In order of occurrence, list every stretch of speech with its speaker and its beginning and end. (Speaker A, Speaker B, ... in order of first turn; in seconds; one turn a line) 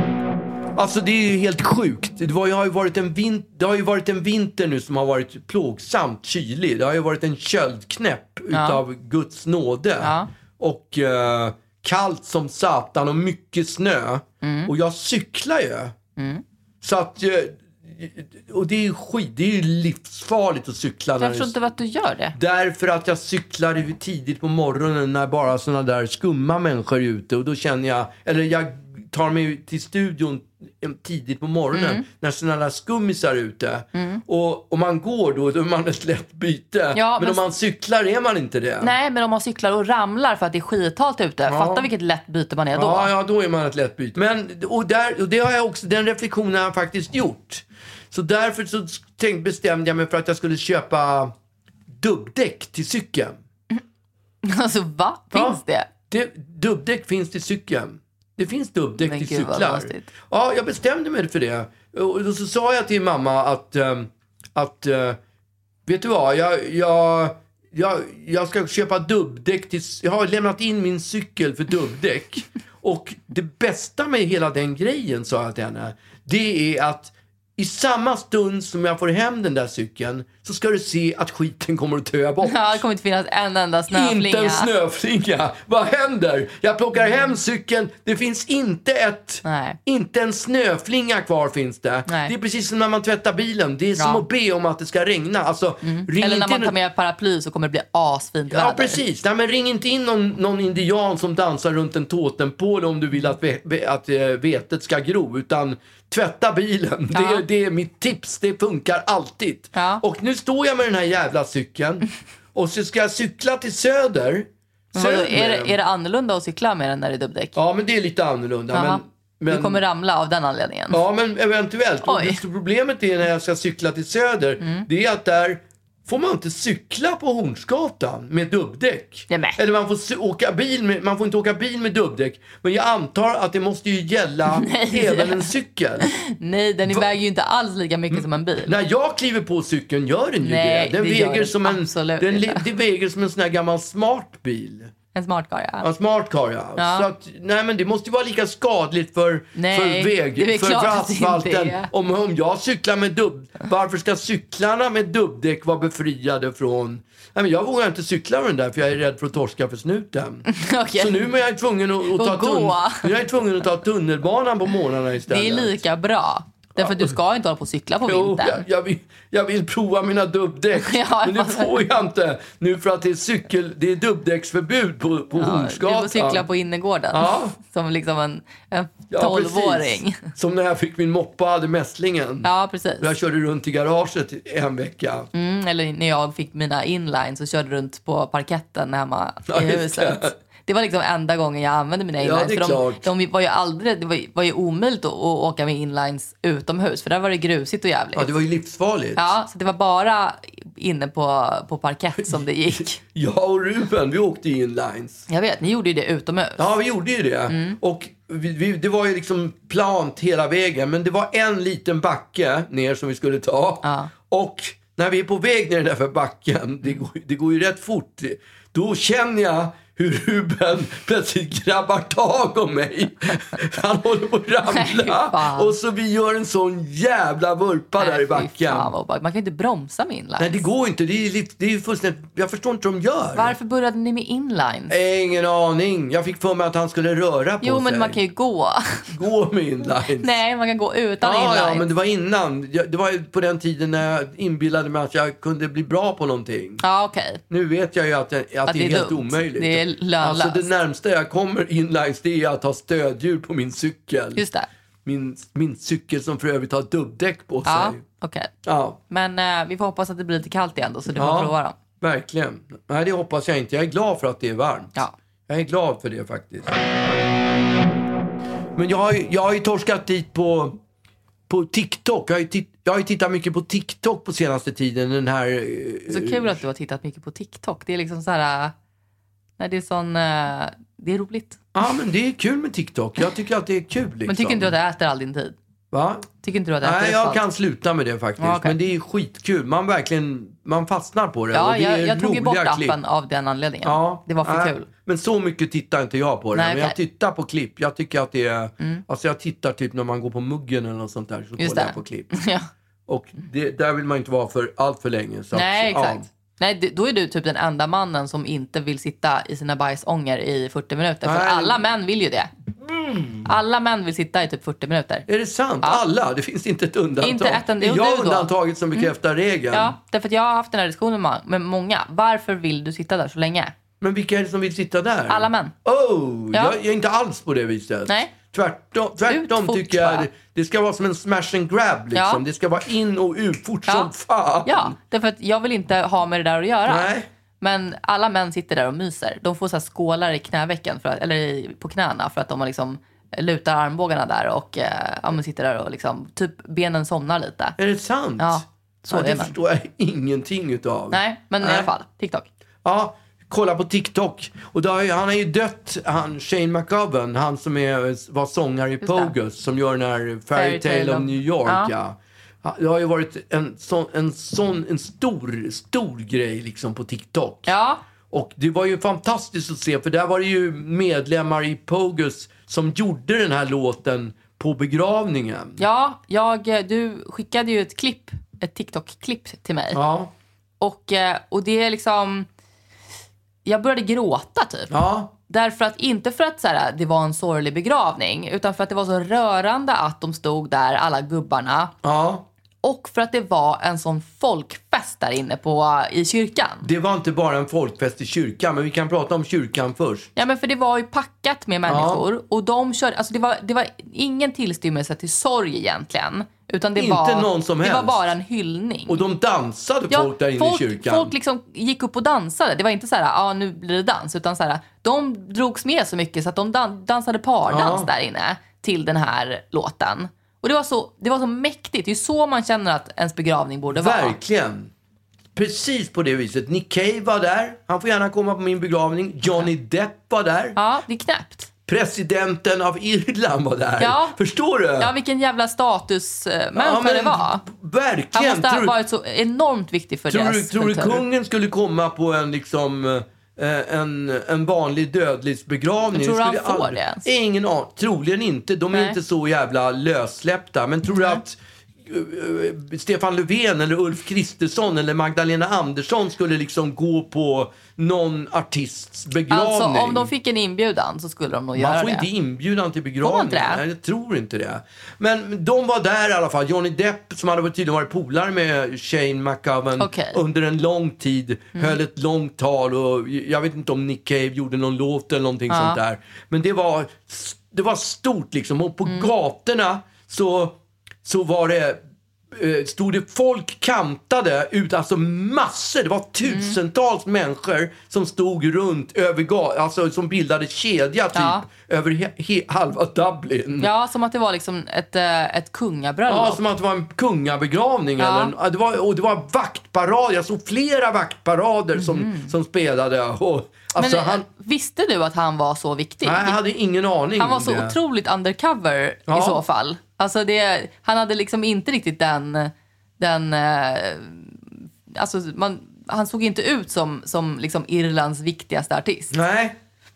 Speaker A: 0.8-15.9
Speaker B: 8.5-8.8
Speaker B: 10.0-10.3
Speaker B: 14.4-14.7
Speaker B: 16.2-16.4
Speaker A: 16.8-21.5
Speaker B: 21.2-22.4
Speaker A: 22.3-38.9
Speaker B: 31.7-32.0
Speaker B: 33.9-34.2
Speaker B: 36.9-37.4
Speaker B: 38.8-43.1
Speaker A: 41.5-41.9
Speaker A: 42.7-51.3
Speaker A: 51.9-53.4
Speaker B: 54.4-55.9
Speaker A: 55.3-65.2
Speaker B: 59.0-60.1
Speaker A: 65.8-82.8
Speaker B: 82.4-84.7
Speaker A: 83.9-96.7
Speaker B: 89.4-89.8
Speaker B: 92.1-92.3
Speaker B: 94.0-94.2
Speaker B: 95.8-99.0
Speaker A: 98.5-115.8
Speaker B: 107.1-107.4
Speaker B: 109.7-110.0
Speaker B: 114.9-117.6
Speaker A: 117.5-119.8
Speaker B: 118.7-121.0
Speaker A: 120.9-136.1
Speaker B: 122.0-122.4
Speaker B: 124.6-124.9
Speaker B: 129.3-129.6
Speaker B: 134.5-135.5
Speaker B: 136.0-138.7
Speaker A: 138.1-144.9
Speaker B: 140.4-142.7
Speaker B: 145.1-145.9
Speaker A: 145.8-165.8
Speaker B: 146.8-147.1
Speaker B: 149.6-151.9
Speaker B: 160.5-161.3
Speaker B: 162.1-163.1
Speaker B: 165.3-168.6
Speaker A: 166.8-167.1
Speaker A: 168.1-176.5
Speaker B: 170.8-171.8
Speaker B: 175.3-180.3
Speaker A: 177.1-177.6
Speaker A: 179.1-185.3
Speaker B: 182.4-183.1
Speaker B: 185.3-198.3
Speaker A: 189.5-190.3
Speaker A: 192.2-193.1
Speaker A: 198.1-199.3
Speaker B: 199.2-203.0
Speaker A: 202.3-205.3
Speaker B: 205.3-206.7
Speaker A: 206.6-228.9
Speaker B: 207.5-207.8
Speaker B: 213.8-214.1
Speaker B: 224.7-225.8
Speaker B: 228.0-230.6
Speaker A: 230.4-233.6
Speaker B: 233.3-234.9
Speaker A: 234.9-238.2
Speaker B: 237.6-239.1
Speaker A: 239.1-240.3
Speaker B: 240.2-241.9
Speaker A: 241.2-246.8
Speaker B: 246.8-247.4
Speaker A: 247.5-254.4
Speaker B: 248.7-250.7
Speaker B: 254.3-254.7
Speaker A: 255.0-258.0
Speaker B: 257.6-258.5
Speaker A: 258.6-259.0
Speaker B: 259.1-261.8
Speaker A: 261.1-264.9
Speaker A: 265.5-266.8
Speaker A: 268.8-270.8
Speaker A: 271.5-276.6
Speaker B: 276.1-278.7
Speaker B: 279.6-281.6
Speaker A: 281.7-284.7
Speaker B: 284.2-285.5
Speaker A: 285.9-286.3
Speaker B: 286.4-287.4
Speaker A: 286.8-293.0
Speaker B: 288.4-288.8
Speaker B: 291.5-294.9
Speaker A: 293.8-302.4
Speaker B: 296.5-296.9
Speaker B: 301.6-302.7
Speaker A: 303.1-306.3
Speaker B: 305.5-312.5
Speaker A: 311.2-311.8
Speaker A: 312.8-313.5
Speaker B: 313.4-315.3
Speaker A: 315.3-319.9
Speaker B: 317.2-319.1
Speaker B: 319.7-323.7
Speaker A: 324.0-334.9
Speaker B: 325.3-325.7
Speaker B: 329.2-330.3
Speaker B: 332.1-332.4
Speaker B: 334.6-347.8
Speaker A: 336.9-337.3
Speaker A: 347.8-351.9
Speaker B: 348.4-349.6
Speaker B: 351.1-352.5
Speaker A: 352.8-367.7
Speaker B: 359.0-359.3
Speaker B: 360.5-361.9
Speaker B: 367.6-368.0
Speaker A: 368.3-375.8
Speaker B: 375.8-380.0
Speaker A: 379.9-380.3
Speaker B: 380.8-382.5
Speaker B: 383.6-385.0
Speaker A: 384.9-385.3
Speaker B: 385.5-391.9
Speaker A: 392.0-392.4
Speaker B: 392.8-396.9
Speaker A: 396.8-400.3
Speaker B: 400.4-409.2
Speaker A: 401.9-402.2
Speaker A: 406.9-408.2
Speaker A: 409.1-411.3
Speaker B: 410.1-424.4
Speaker A: 417.7-418.1
Speaker A: 423.9-424.9
Speaker A: 425.5-430.8
Speaker B: 430.8-431.7
Speaker A: 431.9-435.1
Speaker B: 434.0-434.4
Speaker B: 435.0-437.6
Speaker A: 436.7-438.9
Speaker B: 438.3-441.2
Speaker A: 440.3-460.3
Speaker B: 446.1-447.2
Speaker B: 448.9-449.2
Speaker B: 451.1-451.4
Speaker B: 459.5-462.3
Speaker A: 461.7-482.0
Speaker B: 463.2-463.8
Speaker B: 470.0-470.4
Speaker B: 475.7-476.0
Speaker B: 479.1-479.3
Speaker A: 482.5-493.9
Speaker B: 486.4-486.8
Speaker B: 491.3-491.6
Speaker B: 493.8-496.6
Speaker A: 496.3-504.4
Speaker B: 498.2-498.5
Speaker B: 501.9-502.5
Speaker B: 503.9-506.6
Speaker A: 506.2-508.0
Speaker B: 507.4-519.3
Speaker A: 509.3-509.6
Speaker A: 519.3-519.8